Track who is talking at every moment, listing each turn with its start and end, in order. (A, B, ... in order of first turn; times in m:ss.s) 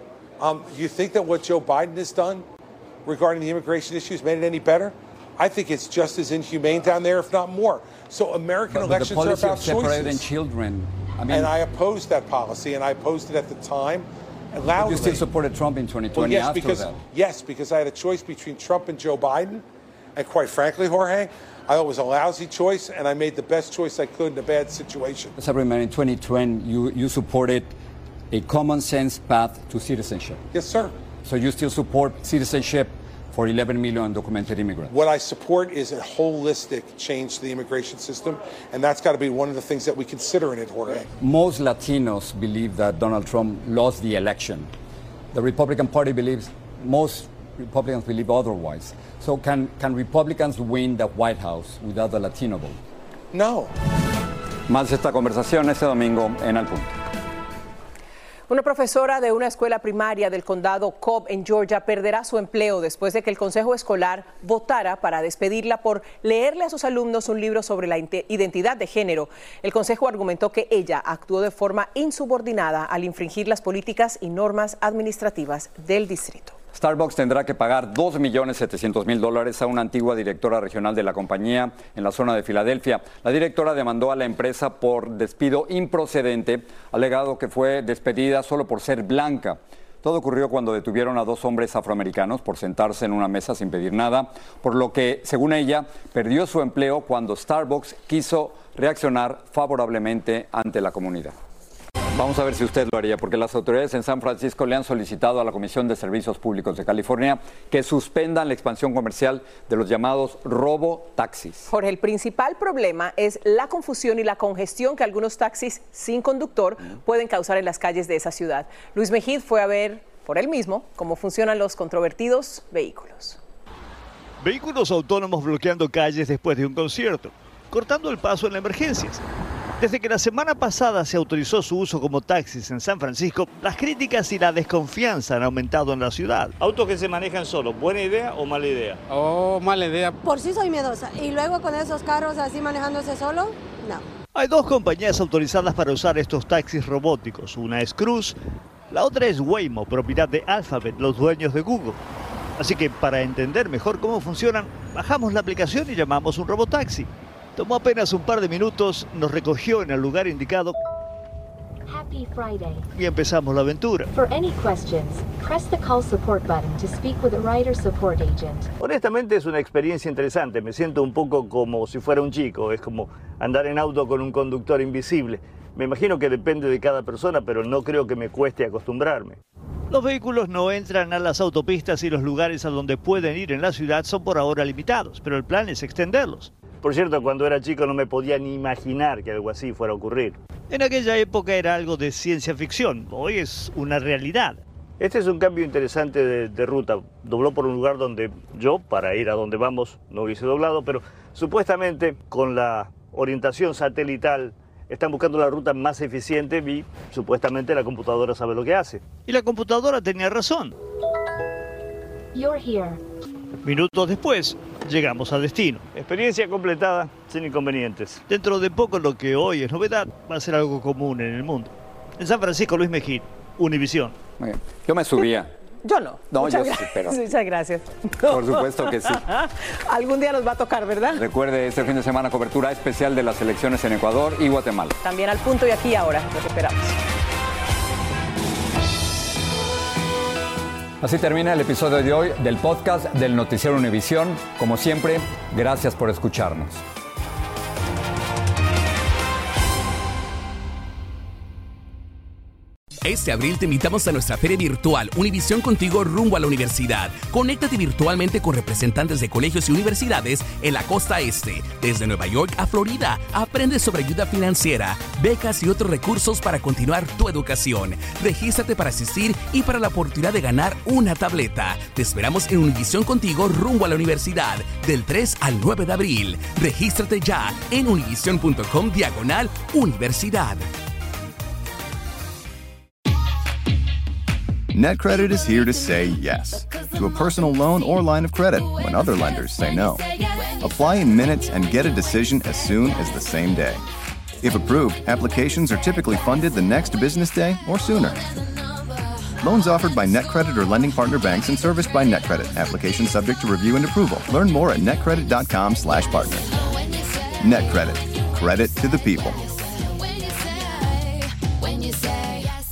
0:00.4-0:02.4 A
0:03.0-0:10.3 A
0:08.7-0:11.5 B
0:11.3-0:15.3 A
0:14.7-0:17.0 B
0:16.2-0:19.6 A
0:20.2-0:25.3 A
0:25.4-0:27.7 B
0:28.3-0:30.4 B
0:30.5-0:31.0 A
0:31.2-0:34.9 B
0:34.9-0:41.1 A
0:41.2-0:44.7 B
0:45.3-0:52.8 B
0:53.3-0:53.7 A
0:54.7-0:57.0 B
0:58.5-1:16.6 C
1:16.7-1:41.4 B
1:42.2-1:51.7 B
1:51.7-2:03.4 C
2:04.4-2:09.2 D
2:09.8-2:19.0 D
2:20.2-2:24.0 E
2:24.3-2:28.4 D
2:28.9-2:32.0 D
2:32.6-2:40.8 D
2:41.9-2:42.9 F
2:43.0-2:44.1 D
2:44.1-2:48.7 F
2:48.8-2:59.4 D
2:59.9-3:30.8 D
3:32.3-3:33.0 F
3:33.6-3:44.2 D
3:44.4-3:45.5 B
3:45.8-3:51.2 C
3:46.3-3:47.3 B
3:48.3-3:49.2 B
3:51.2-3:54.9 B
3:55.0-3:57.0 C
4:01.0-4:06.8 B
4:13.0-4:40.7 G
4:44.7-4:50.0 H
4:50.6-4:53.8 H
4:54.4-4:58.3 H
4:59.4-5:06.5 H
5:07.4-5:09.4 H